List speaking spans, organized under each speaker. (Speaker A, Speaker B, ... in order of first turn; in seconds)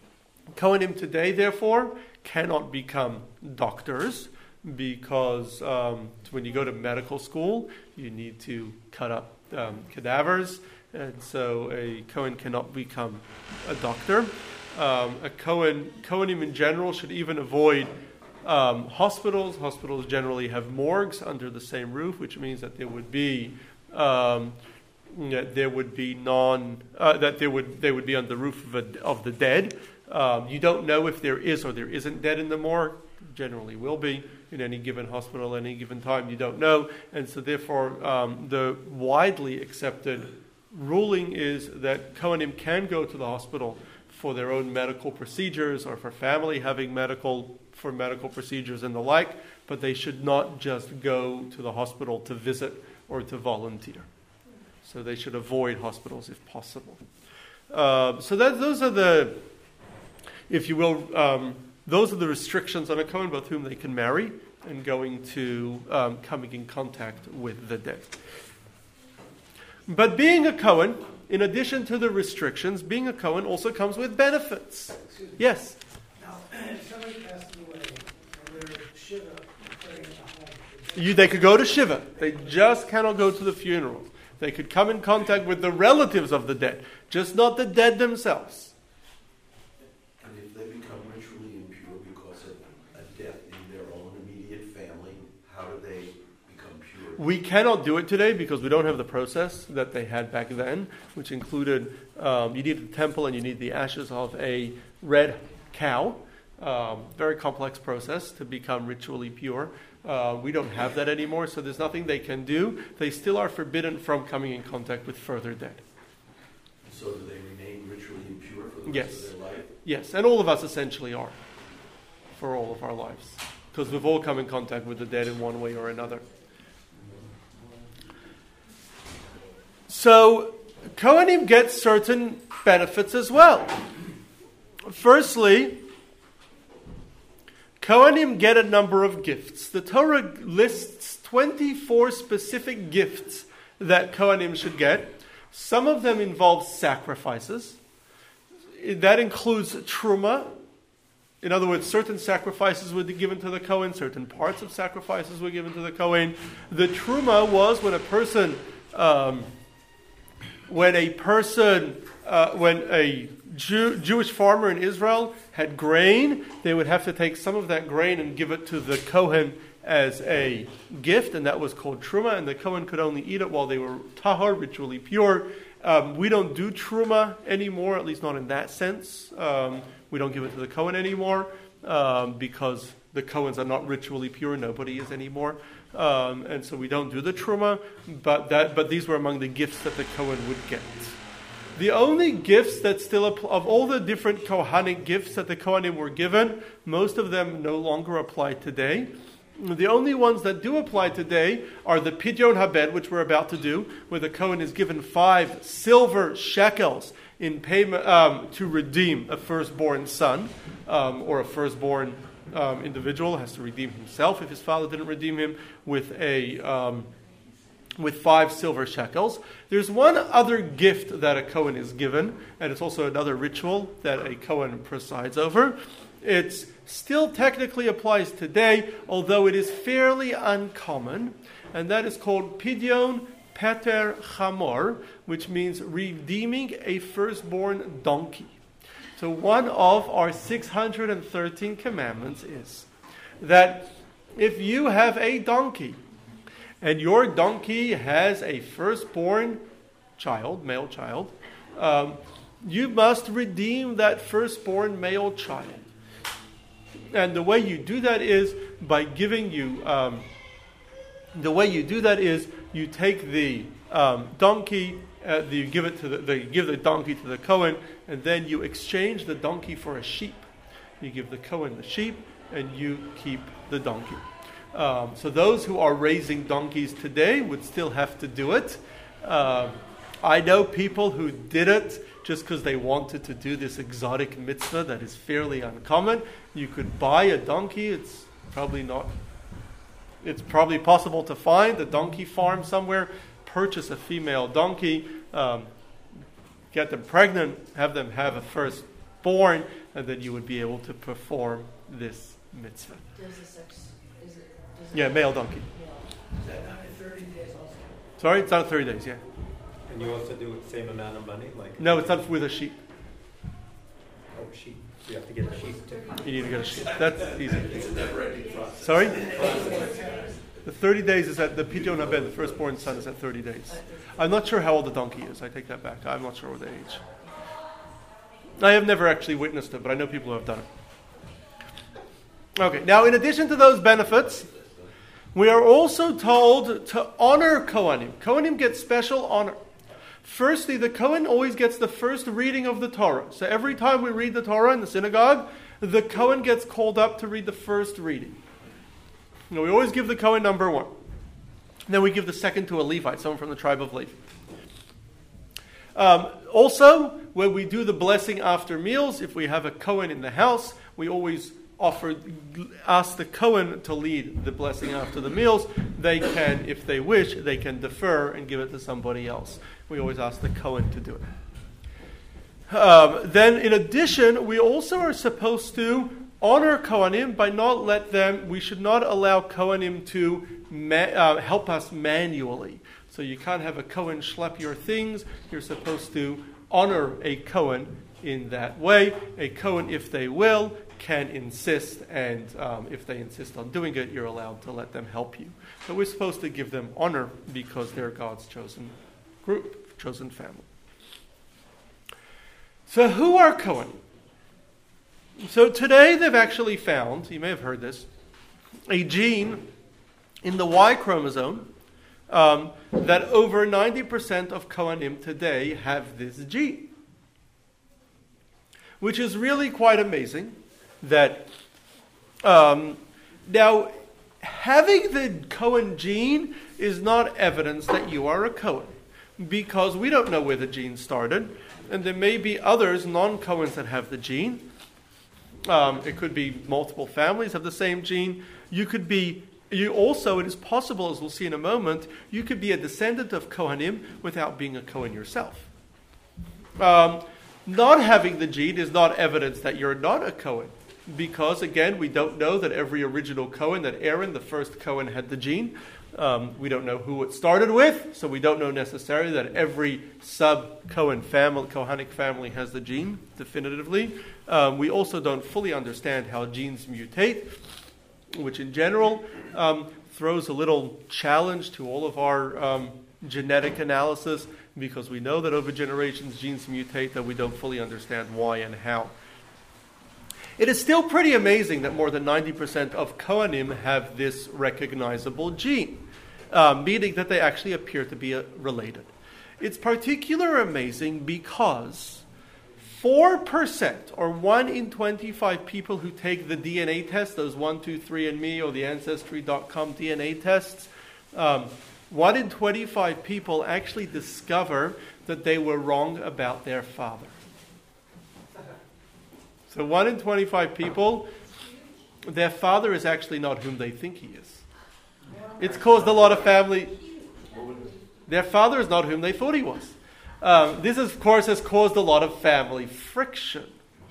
Speaker A: 0.5-17.9, 18.4-24.6, 25.1-54.1, 54.8-57.0, 57.7-59.4, 60.5-68.1, 69.9-75.8, 80.9-88.7, 97.2-115.8, 118.9-121.4, 122.3-126.2, 129.9-133.8, 134.9-135.8, 137.8-147.8, 148.8-150.6, 151.4-159.5, 160.7-191.2, 191.7-217.1, 218.0-238.6, 239.2-242.9, 243.4-246.0, 246.8-249.6, 250.2-255.9, 257.1-260.3, 261.3-270.4, 271.0-289.1, 290.2-295.7, 296.7-303.1, 304.9-305.7, 308.2-309.2, 311.8-312.8, 316.2-318.1, 318.8-319.5, 320.6-327.0, 328.6-330.7, 332.6-334.5, 335.3-339.6, 340.2-348.4, 349.5-350.9, 351.9-354.3, 355.9-371.3, 372.7-400.7, 402.9-404.0, 405.4-408.1, 408.9-409.6, 410.4-411.7, 412.3-416.9, 419.0-421.5, 422.4-434.6, 435.6-445.7, 446.8-467.6, 468.3-479.1, 480.6-492.2, 492.8-507.4, 509.7-511.3, 512.2-514.6, 515.6-517.0, 518.3-523.8
Speaker B: 76.1-81.4, 306.3-308.0, 319.3-320.3
Speaker C: 90.2-97.2, 116.9-119.7, 317.7-320.0, 517.5-518.0
Speaker D: 303.1-306.1, 319.2-320.3
Speaker E: 309.9-312.2, 314.3-316.3